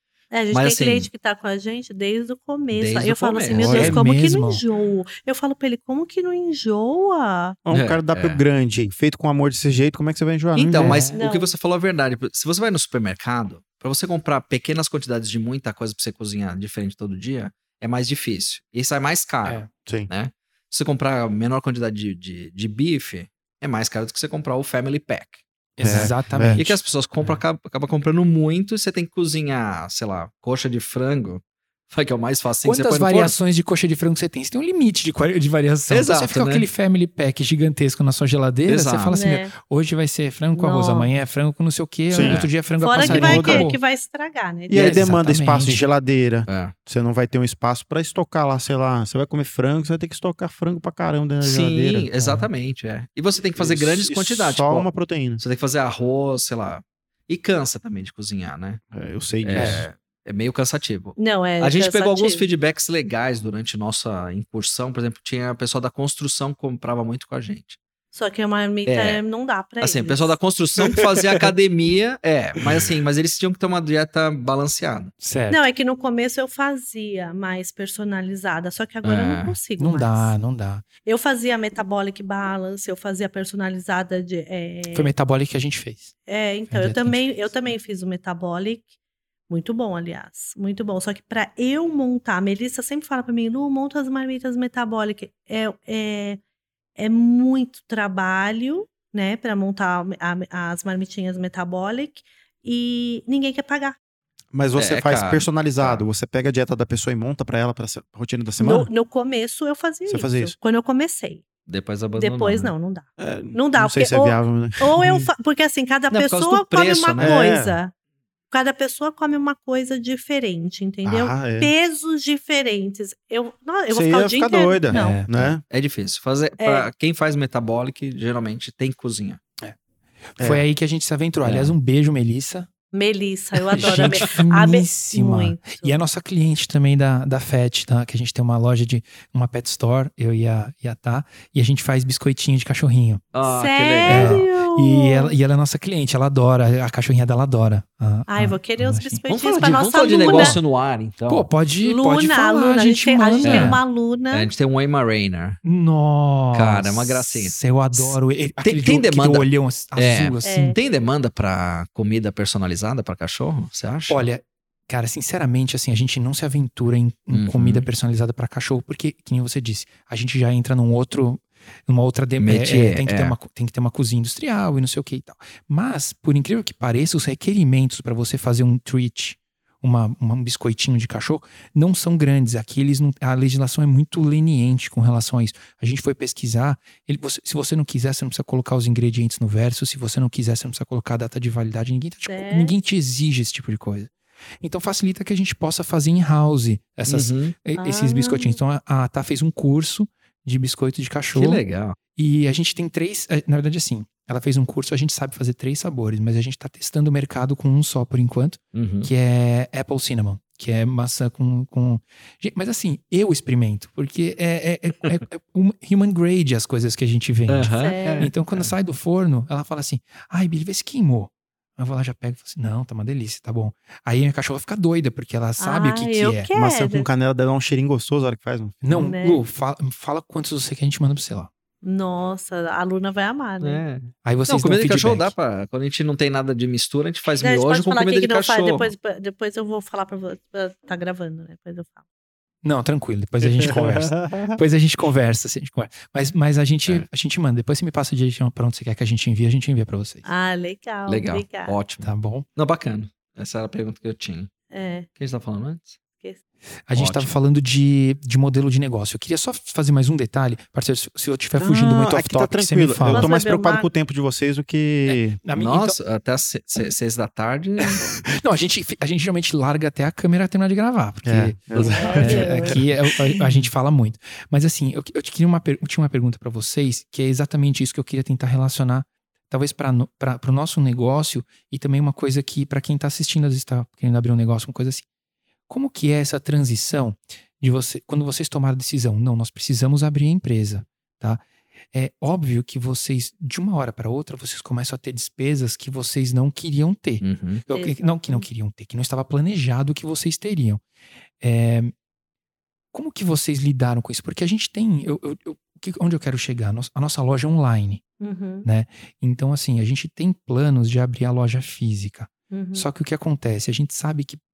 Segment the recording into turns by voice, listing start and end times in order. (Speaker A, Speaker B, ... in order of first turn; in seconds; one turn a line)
Speaker A: 0.3-7.6
Speaker B: 0.5-1.1
Speaker B: 2.7-4.0
Speaker C: 3.5-4.0
Speaker D: 3.7-4.6
Speaker C: 7.7-11.0
Speaker B: 7.7-8.4
Speaker B: 10.6-33.4
Speaker D: 10.8-11.2
Speaker A: 11.2-11.5
Speaker D: 19.4-19.7
Speaker D: 25.8-27.4
Speaker C: 25.8-26.6
Speaker D: 32.6-43.8
Speaker B: 35.9-36.7
Speaker B: 38.7-39.2
Speaker A: 39.1-39.5
Speaker A: 40.5-41.1
Speaker C: 42.1-42.4
Speaker B: 42.2-42.5
Speaker A: 42.8-45.0
Speaker C: 43.0-43.7
Speaker C: 44.7-52.1
Speaker D: 44.8-45.8
Speaker B: 46.5-46.7
Speaker B: 51.4-58.8
Speaker D: 52.2-52.5
Speaker C: 53.6-55.4
Speaker C: 58.9-59.9
Speaker B: 59.4-67.8
Speaker D: 59.5-59.9
Speaker A: 61.2-62.5
Speaker A: 68.1-70.4
Speaker B: 68.9-69.2
Speaker B: 69.8-75.1
Speaker D: 75.2-75.6
Speaker A: 75.5-80.3
Speaker B: 79.0-79.6
Speaker D: 79.8-80.8
Speaker A: 81.0-85.1
Speaker D: 84.9-86.1
Speaker A: 86.3-88.9
Speaker D: 86.7-87.2
Speaker A: 89.5-96.4
Speaker A: 97.0-104.0
Speaker C: 104.5-108.9
Speaker B: 104.8-106.0
Speaker A: 108.6-111.4
Speaker C: 110.1-110.6
Speaker B: 111.7-112.7
Speaker A: 112.2-117.9
Speaker C: 113.2-115.3
Speaker B: 116.1-117.4
Speaker C: 117.2-117.8
Speaker A: 118.5-125.2
Speaker C: 121.0-121.7
Speaker C: 123.9-125.6
Speaker D: 124.9-125.6
Speaker B: 125.7-129.4
Speaker A: 126.6-126.9
Speaker D: 130.4-132.7
Speaker B: 131.4-131.7
Speaker A: 132.9-136.0
Speaker B: 133.7-134.2
Speaker D: 133.8-143.2
Speaker B: 143.3-144.5
Speaker A: 143.4-145.4
Speaker D: 144.1-149.2
Speaker A: 148.3-150.6
Speaker B: 149.3-151.5
Speaker D: 150.2-150.6
Speaker D: 151.3-153.8
Speaker A: 151.8-154.5
Speaker B: 153.4-155.6
Speaker D: 155.6-160.8
Speaker B: 156.5-164.2
Speaker A: 160.4-160.8
Speaker D: 164.1-201.6
Speaker B: 167.3-167.9
Speaker B: 172.4-173.4
Speaker A: 192.3-192.8
Speaker B: 197.1-197.6
Speaker A: 197.8-198.6
Speaker B: 201.3-202.0
Speaker D: 202.2-226.5
Speaker B: 208.7-209.1
Speaker B: 217.5-218.7
Speaker A: 217.8-218.3
Speaker A: 225.6-227.1
Speaker C: 226.5-229.1
Speaker D: 228.8-231.5
Speaker A: 228.9-229.4
Speaker A: 231.8-233.8
Speaker B: 233.6-238.9
Speaker D: 234.2-235.3
Speaker A: 237.4-242.0
Speaker D: 242.6-250.2
Speaker C: 243.6-244.6
Speaker A: 250.2-251.8
Speaker B: 251.1-254.5
Speaker D: 252.0-252.5
Speaker A: 254.7-255.1
Speaker B: 255.2-256.0
Speaker D: 256.9-263.3
Speaker B: 256.9-257.3
Speaker C: 261.6-265.4
Speaker A: 263.1-263.9
Speaker D: 265.4-266.0
Speaker B: 265.6-268.1
Speaker D: 268.2-285.1
Speaker C: 271.2-272.8
Speaker A: 271.7-272.8
Speaker B: 272.0-272.5
Speaker D: 285.7-300.8
Speaker B: 297.2-297.6
Speaker A: 297.7-298.5
Speaker D: 301.4-301.9
Speaker D: 302.9-308.0
Speaker A: 308.2-308.7
Speaker D: 308.6-314.4
Speaker A: 312.5-312.9